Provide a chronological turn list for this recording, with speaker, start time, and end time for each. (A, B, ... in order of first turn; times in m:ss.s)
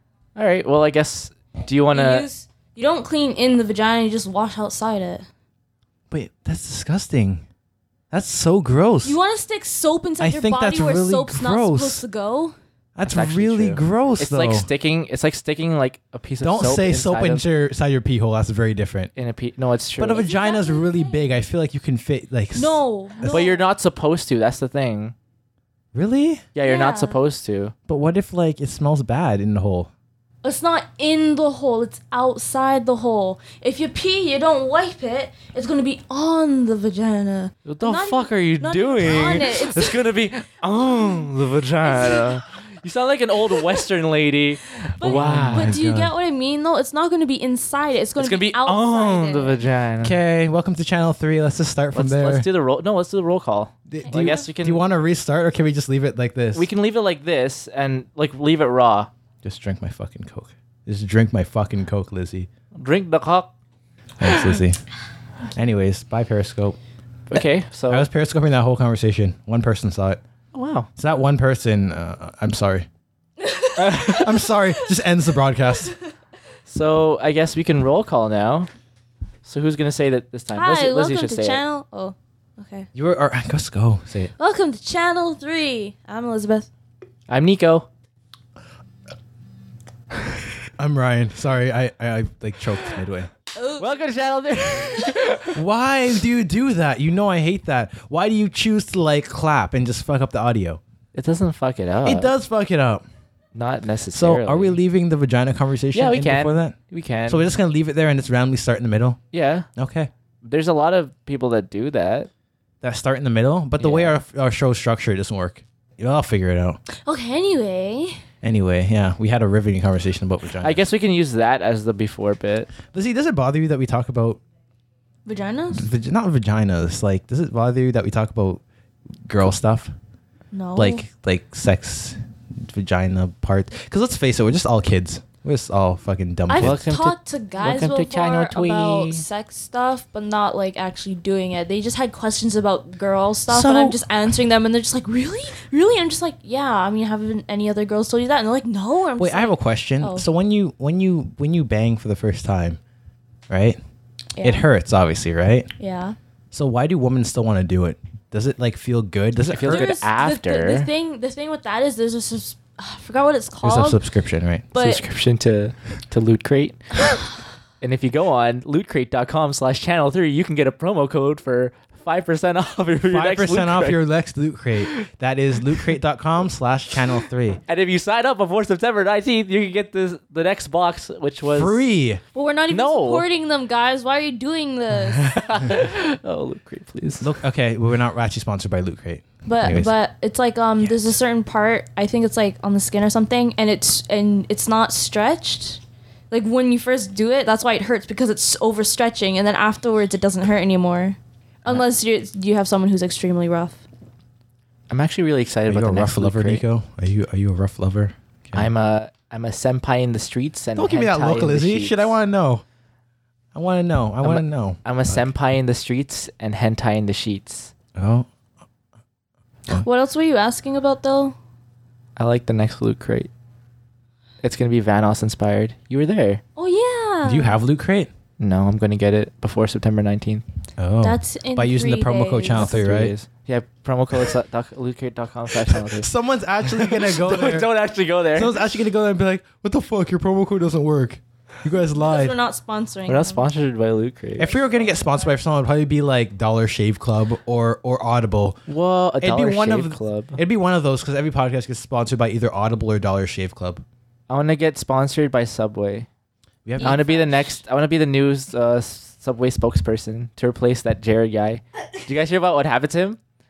0:00.4-0:02.3 A
0:01.9-0:05.3 B
0:06.1-0:07.4 C
0:08.1-0:09.2 C
0:09.0-0:12.6 B
0:10.2-0:12.0 C
0:13.0-0:14.7 C
0:13.1-0:17.4 A
0:16.4-0:19.1 C
0:19.2-0:20.3 A
0:20.0-0:23.5 C
0:20.1-0:21.2 B
0:22.6-0:23.6 B
0:23.2-0:25.1 A
0:25.9-0:26.4 C
0:26.6-0:27.8 A
0:26.6-0:27.2 B
0:27.9-0:29.9 C
0:30.4-0:40.0 B
0:37.6-0:45.8 A
0:41.8-0:42.4 B
0:43.6-0:43.8 B
0:45.0-0:49.6 B
0:45.0-0:46.1 C
0:48.2-0:50.2 A
0:50.0-0:52.5 C
0:52.0-0:54.8 A
0:53.9-0:56.7 C
0:54.0-0:54.4 B
0:56.5-0:59.1 A
0:59.4-1:02.5 C
1:02.8-1:03.5 A
1:04.2-1:04.8 C
1:04.2-1:04.6 A
1:05.5-1:06.8 C
1:07.3-1:08.1 A
1:07.9-1:10.2 C
1:10.5-1:10.9 A
1:11.0-1:12.9 C
1:13.4-1:15.1 B
1:13.8-1:14.3 A
1:14.1-1:15.9 C
1:16.7-1:18.7 A
1:19.4-1:21.6 A
1:20.6-1:22.9 B
1:23.0-1:24.3 C
1:24.4-1:26.7 B
1:27.3-1:27.9 A
1:30.8-1:33.3 C
1:33.6-1:34.0 B
1:33.8-1:35.6 A
1:35.5-1:40.8 C
1:41.1-1:42.3 A
1:42.0-1:43.0 C
1:43.5-1:44.8 A
1:44.1-1:46.8 C
1:45.9-1:47.4 A
1:47.3-1:49.2 C
1:49.3-1:49.7 A
1:49.8-1:50.1 C
1:50.4-1:52.3 A
1:52.8-1:56.8 C
1:53.8-1:54.2 A
1:57.0-1:58.2 B
1:58.4-2:00.8 C
2:00.6-2:02.7 A
2:02.9-2:04.4 C
2:05.3-2:05.9 B
2:05.7-2:08.6 C
2:09.3-2:09.9 C
2:10.5-2:11.0 B
2:10.8-2:16.9 C
2:16.5-2:30.3 B
2:16.6-2:19.3 A
2:23.5-2:24.0 C
2:29.2-2:32.8 C
2:33.5-2:33.8 C
2:34.4-2:34.6 B
2:34.4-2:35.7 C
2:35.8-2:36.2 B
2:36.5-2:39.9 C
2:39.5-2:40.9 A
2:39.7-2:44.0 B
2:43.6-2:44.7 C
2:44.7-2:45.0 B
2:44.8-2:46.9 A
2:47.8-2:54.0 A
2:53.1-2:57.6 C
2:54.8-2:55.0 A
2:57.7-3:02.0 A
3:01.5-3:02.2 C
3:02.3-3:05.4 B
3:02.7-3:03.3 A
3:05.2-3:07.4 A
3:07.2-3:09.9 C
3:09.5-3:23.8 B
3:24.9-3:26.6 A
3:25.7-3:28.7 C
3:28.5-3:32.2 A
3:30.8-3:32.6 C
3:33.5-3:35.3 C
3:34.2-3:37.7 A
3:38.0-3:38.3 C
3:39.7-3:41.4 B
3:42.2-3:43.3 A
3:44.4-3:46.4 A
3:46.6-3:47.6 B
3:47.2-3:48.1 C
3:48.4-3:50.4 A
3:50.8-3:53.1 C
3:51.0-3:52.7 B
3:52.5-3:56.1 A
3:55.6-3:57.7 C
3:56.6-3:58.6 A
3:58.3-4:02.3 C
4:01.7-4:03.5 B
4:03.1-4:04.6 A
4:04.4-4:08.6 C
4:04.5-4:05.2 B
4:08.7-4:10.4 A
4:09.2-4:13.8 C
4:14.3-4:16.1 A
4:16.6-4:17.0 C
4:16.8-4:17.6 B
4:16.8-4:23.2 A